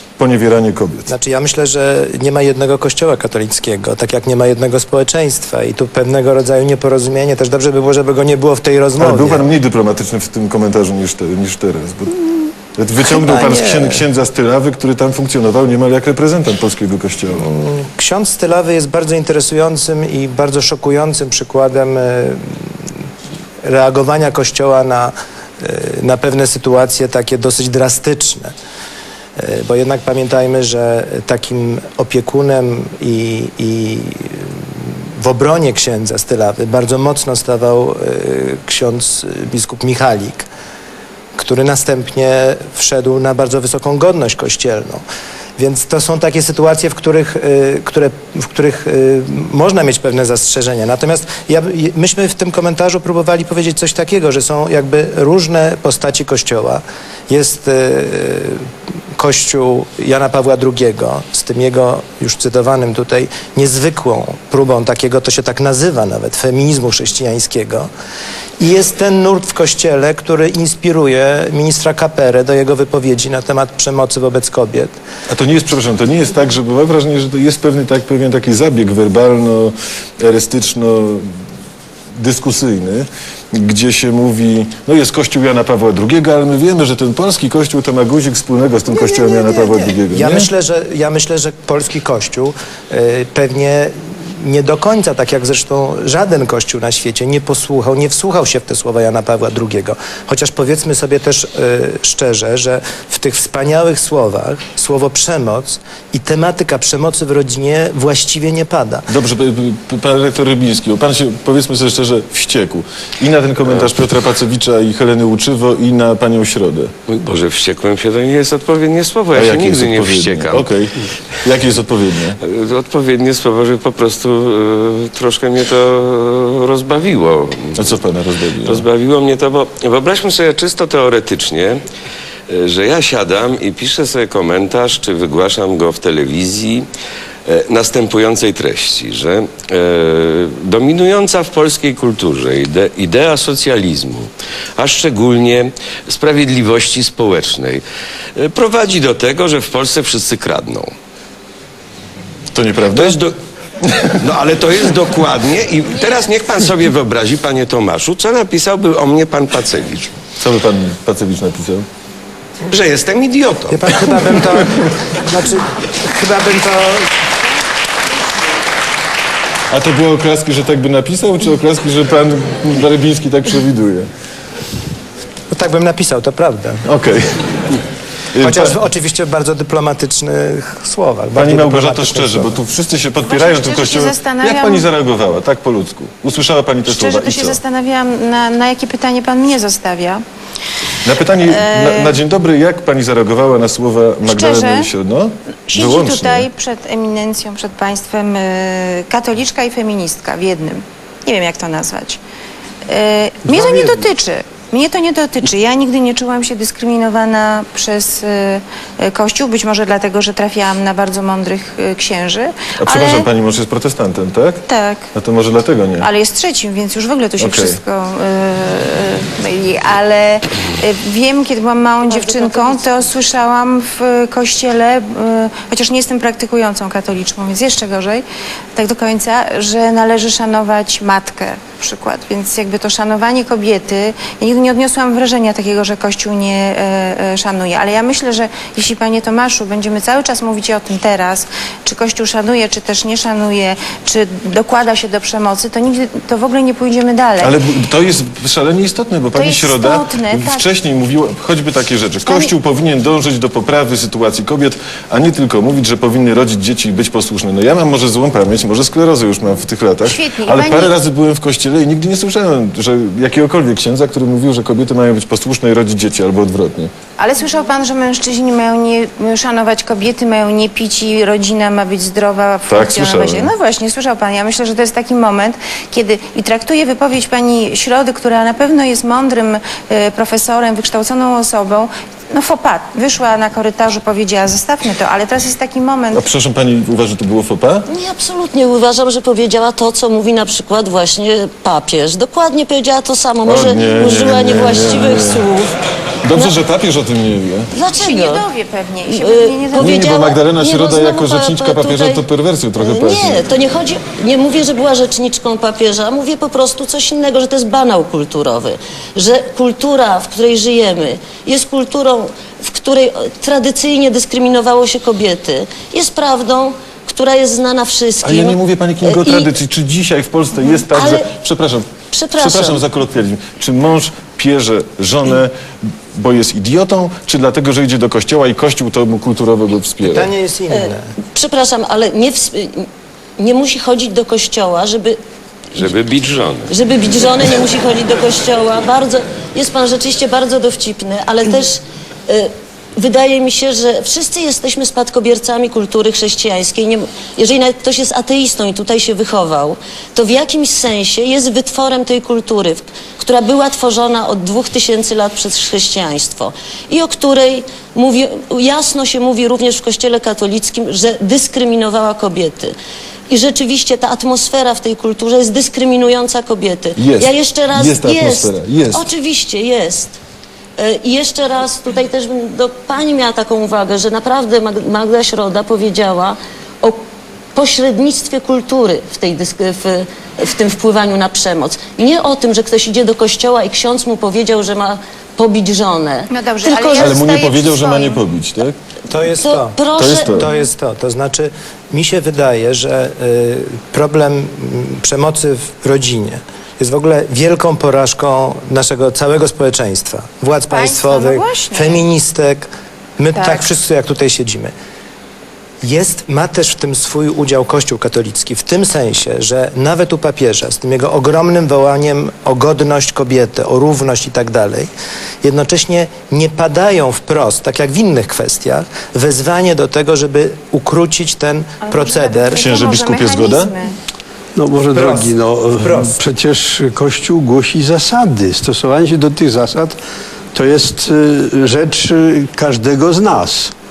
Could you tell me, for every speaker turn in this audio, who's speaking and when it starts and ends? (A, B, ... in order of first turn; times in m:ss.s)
0:00.2-0:01.1 A
0:01.1-0:09.4 B
0:09.0-0:12.2 A
0:12.8-0:17.4 A
0:13.0-0:14.0 B
0:17.4-0:22.8 B
0:23.6-0:28.5 B
0:29.4-0:40.5 B
0:41.4-0:45.0 B
0:45.6-1:07.9 B
1:08.6-1:15.0 B
1:15.3-1:21.3 A
1:22.2-1:30.5 A
1:28.9-1:49.1 B
1:49.1-1:56.9 A
1:57.1-2:00.7 C
1:59.3-2:02.4 A
2:02.4-2:08.0 C
2:07.8-2:08.8 A
2:08.6-2:11.8 C
2:12.5-2:16.8 C
2:17.4-2:27.8 C
2:28.4-2:30.9 C
2:32.5-2:33.2 A
2:32.9-2:33.3 C
2:34.0-2:40.2 C
2:40.4-2:41.8 A
2:42.7-2:44.3 C
2:43.7-2:47.1 B
2:49.7-2:54.1 A
2:55.5-2:56.8 B
2:56.8-2:57.8 A
2:58.3-2:58.8 A
2:58.4-3:02.5 B
3:01.3-3:07.6 A
3:03.2-3:04.9 D
3:06.8-3:10.2 D
3:11.0-3:16.5 A
3:11.4-3:12.2 D
3:14.2-3:14.9 D
3:15.7-3:22.2 D
3:22.9-3:33.3 D
3:23.5-3:24.0 A
3:32.8-3:36.1 A
3:34.7-3:35.0 D
3:36.0-3:48.2 D
3:37.4-3:37.8 A
3:48.8-4:07.6 D
4:07.4-4:26.9 A
4:09.3-4:10.7 D
4:12.3-4:12.5 D
4:20.0-4:21.0 D
4:27.2-4:46.2 D
4:32.7-4:33.5 A
4:46.1-4:47.8 A
4:47.9-4:55.7 E
4:53.4-4:55.5 A
4:56.2-4:57.7 A
4:57.7-4:58.4 E
4:57.9-5:00.0 D
4:59.1-5:02.2 E
4:59.8-5:03.4 A
5:02.8-5:19.5 E
5:18.2-5:30.3 A
5:20.7-5:21.3 E
5:22.1-5:22.8 E
5:30.0-5:31.1 B
5:30.7-5:35.2 E
5:35.8-5:36.7 C
5:36.7-6:02.7 E
6:03.3-6:10.2 E
6:07.0-6:09.0 A
6:10.8-6:27.2 E
6:26.3-6:28.2 D
6:27.0-6:28.8 A
6:29.1-6:44.7 B
6:29.4-6:30.5 E
6:29.9-6:30.5 A
6:40.7-6:42.0 D
6:43.3-6:43.6 D
6:45.8-6:54.9 B
6:55.4-7:02.7 B
7:01.8-7:03.9 D
7:02.6-7:03.7 A
7:04.6-7:10.0 F
7:04.9-7:06.2 B
7:10.5-7:13.7 F